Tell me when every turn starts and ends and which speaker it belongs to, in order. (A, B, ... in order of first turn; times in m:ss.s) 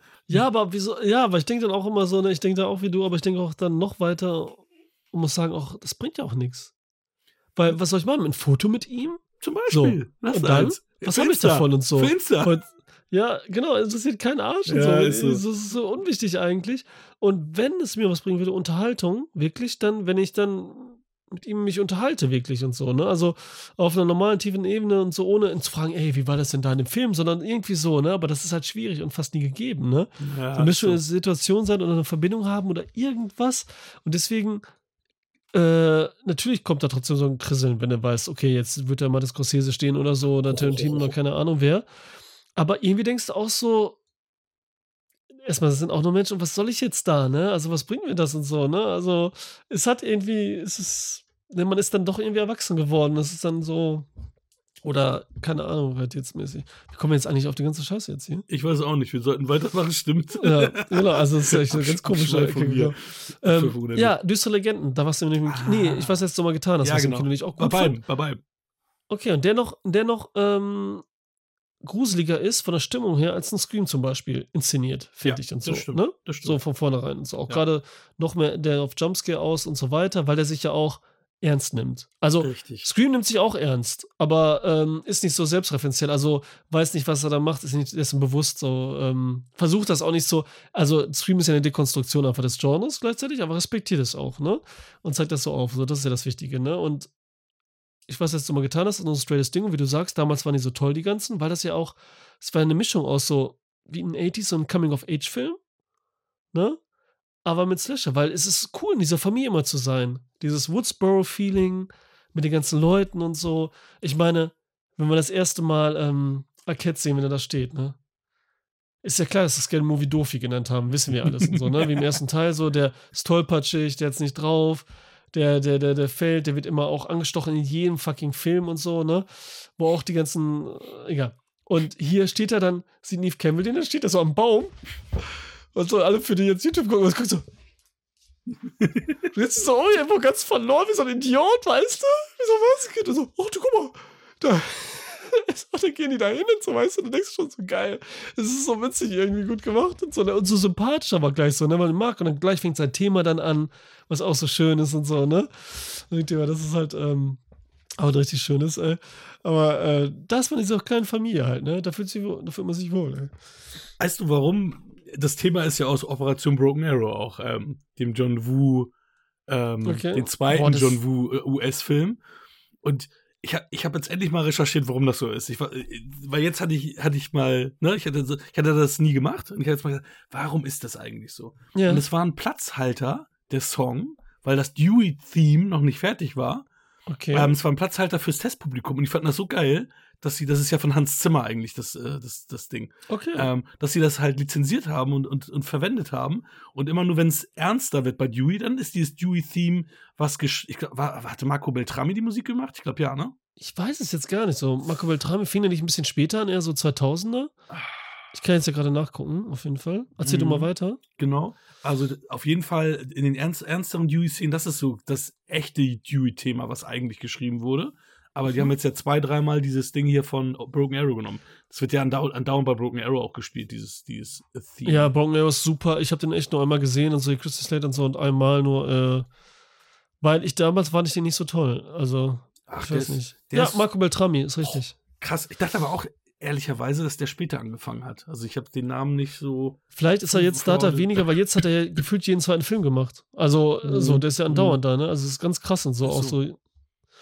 0:00.3-0:06.7 A
0:07.6-0:34.6 A
0:09.4-0:12.6 B
0:14.7-0:15.4 B
0:30.2-0:31.0 B
0:35.5-0:41.9 A
0:40.4-0:41.1 B
0:42.6-0:44.0 A
0:45.4-0:54.1 A
0:54.8-0:58.4 A
0:58.5-1:04.1 B
1:00.4-1:08.0 A
1:05.5-1:06.2 B
1:06.8-1:08.4 B
1:09.1-1:11.0 A
1:11.8-1:37.1 A
1:15.2-1:16.6 B
1:22.4-1:22.9 B
1:38.1-1:45.6 A
1:46.5-1:46.8 A
1:47.4-1:58.0 A
1:59.0-2:14.8 A
2:01.3-2:02.1 B
2:15.7-2:17.4 A
2:18.8-2:19.2 B
2:19.3-2:37.4 A
2:38.0-2:43.3 A
2:44.0-2:48.9 B
2:49.5-2:52.2 B
2:49.8-2:51.0 A
2:52.8-3:06.7 B
3:01.7-3:02.0 A
3:07.1-3:07.5 A
3:07.3-3:23.3 B
3:13.1-3:13.5 A
3:23.6-3:27.5 A
3:28.3-3:31.0 A
3:30.2-3:45.1 B
3:44.8-3:49.3 A
3:50.2-3:55.0 A
3:52.7-3:53.9 B
3:54.6-4:01.3 B
3:59.9-4:06.6 A
4:03.8-4:04.8 B
4:06.0-4:06.4 B